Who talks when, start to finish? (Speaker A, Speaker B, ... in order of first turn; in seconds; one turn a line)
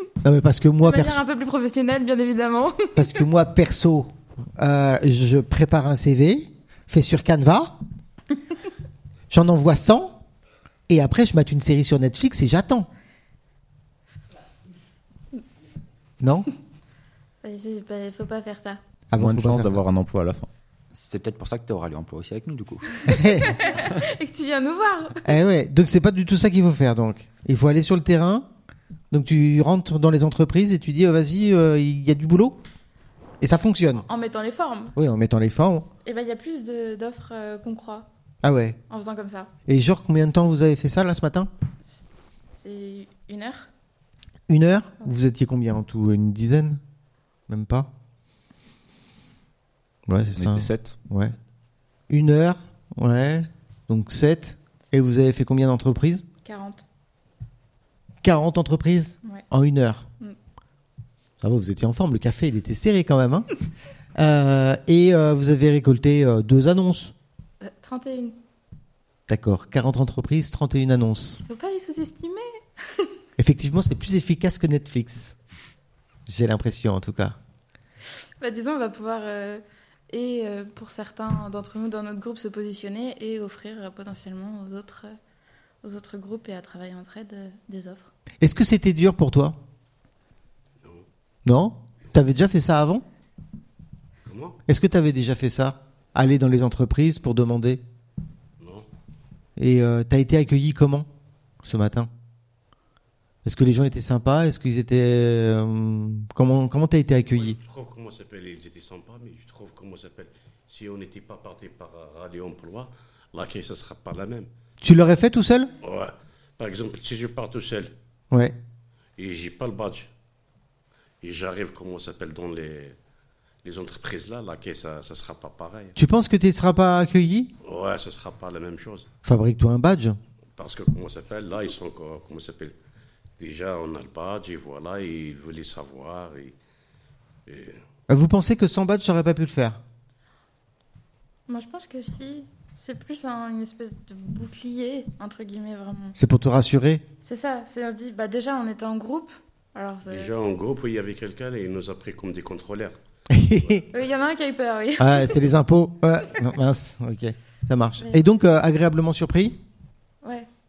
Speaker A: 0.2-1.2
Speaker B: 0.8-3.2
Speaker A: 3.0-7.8
Speaker A: 9.3-10.2
Speaker A: 10.9-12.9
Speaker A: 16.2-16.5
Speaker B: 17.4-18.8
Speaker A: 19.1-19.8
Speaker C: 19.2-20.5
Speaker D: 20.9-23.1
Speaker B: 23.0-25.2
Speaker A: 23.1-23.6
Speaker A: 25.2-28.5
Speaker A: 29.1-32.6
Speaker A: 33.4-34.1
Speaker B: 34.1-35.0
Speaker A: 35.0-35.9
Speaker B: 36.0-38.1
Speaker A: 38.4-38.8
Speaker B: 38.9-39.5
Speaker A: 39.7-41.5
Speaker B: 42.6-43.7
Speaker A: 44.5-46.8
Speaker A: 47.5-47.9
Speaker A: 50.1-51.4
Speaker C: 50.4-51.0
Speaker A: 52.1-56.3
Speaker B: 56.5-56.9
Speaker A: 58.2-60.0
Speaker A: 61.4-63.5
Speaker A: 64.2-67.1
Speaker B: 67.6-68.4
Speaker A: 69.3-71.4
Speaker B: 71.5-73.1
Speaker A: 73.4-75.4
Speaker A: 76.3-77.4
Speaker B: 78.4-85.2
Speaker B: 85.8-88.1
Speaker A: 88.4-89.6
Speaker A: 91.5-93.0
Speaker E: 94.3-94.6
Speaker A: 94.7-97.8
Speaker E: 98.6-98.9
Speaker A: 99.6-101.1
Speaker A: 101.6-102.1
Speaker A: 103.5-107.6
Speaker E: 107.3-114.5
Speaker A: 114.8-115.7
Speaker E: 115.8-117.9
Speaker A: 118.3-118.6
Speaker E: 119.2-120.1
Speaker E: 121.2-123.0
Speaker E: 123.6-126.0
Speaker A: 126.0-127.5
Speaker E: 127.6-129.1
Speaker A: 129.2-130.2
Speaker E: 130.6-132.8
Speaker E: 133.4-136.6
Speaker E: 137.5-137.8
Speaker A: 138.1-139.8
Speaker B: 141.5-146.2
Speaker A: 146.2-147.0
Speaker B: 147.2-150.3
Speaker E: 150.1-153.0
Speaker A: 153.3-153.8
Speaker B: 153.9-155.4
Speaker A: 155.0-159.6
Speaker B: 158.0-158.3
Speaker B: 160.2-160.5